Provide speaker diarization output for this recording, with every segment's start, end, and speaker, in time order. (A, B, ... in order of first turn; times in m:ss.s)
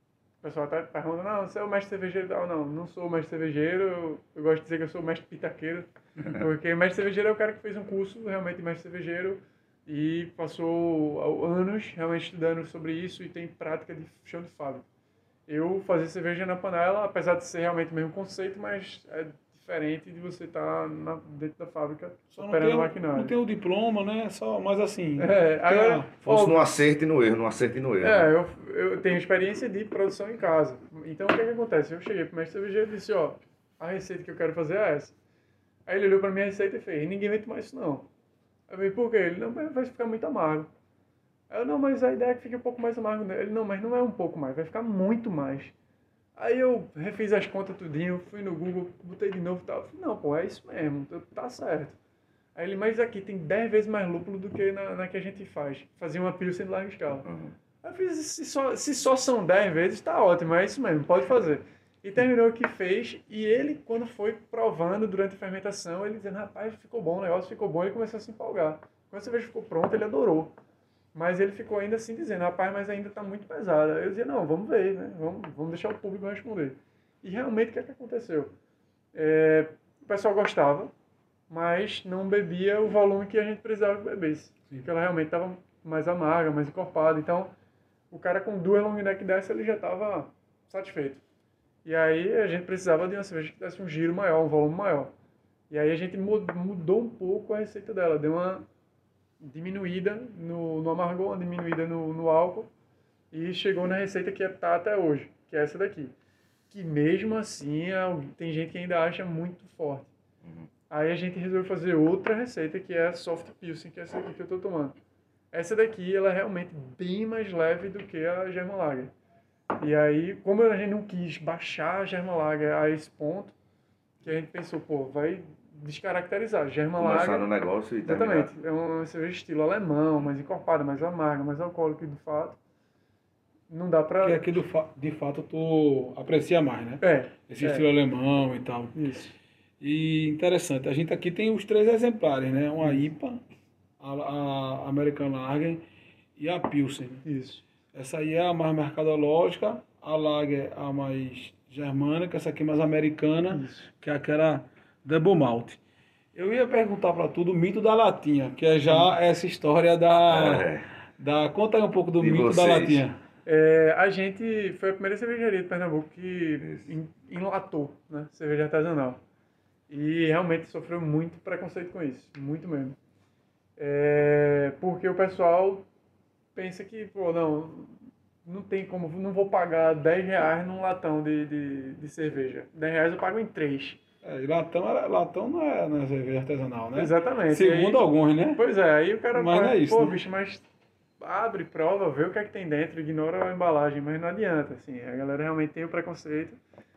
0:00.4-0:14.8 A
0:15.5-0:23.3 A
0:22.3-0:26.1 B
0:25.2-0:26.7 A
0:26.2-0:28.3 C
0:28.0-0:35.2 A
0:35.8-0:38.1 A
0:38.7-0:40.7 A
0:41.5-0:45.7 A
0:46.4-0:52.0 A
0:52.5-0:57.3 A
0:57.2-0:57.5 C
0:57.8-1:10.5 A
1:11.1-1:18.5 A
1:19.1-1:20.9 A
1:21.5-1:27.5 A
1:28.1-1:31.2 A
1:31.8-1:35.1 A
1:35.7-1:38.6 A
1:39.4-1:42.7 A
1:43.3-1:46.1 A
1:46.7-1:50.1 A
1:50.4-1:50.7 C
1:50.9-1:55.0 A
1:55.5-1:59.1 A
1:59.8-2:03.5 A
2:04.2-2:07.5 A
2:07.0-2:08.5 C
2:08.0-2:12.6 A
2:13.7-2:14.4 A
2:14.2-2:19.0 B
2:17.0-2:17.9 A
2:18.9-2:19.3 A
2:19.8-2:23.4 B
2:24.0-2:25.8 B
2:26.4-2:27.2 B
2:27.2-2:27.6 A
2:27.9-2:35.8 B
2:33.5-2:33.9 A
2:36.3-2:43.2 B
2:40.3-2:40.8 C
2:42.2-2:43.0 C
2:43.4-2:49.2 A
2:46.6-2:46.9 C
2:49.9-2:53.0 A
2:53.8-2:55.8 A
2:56.5-3:04.0 A
3:04.2-3:08.6 B
3:06.9-3:10.6 A
3:09.3-3:10.2 B
3:11.2-3:16.6 A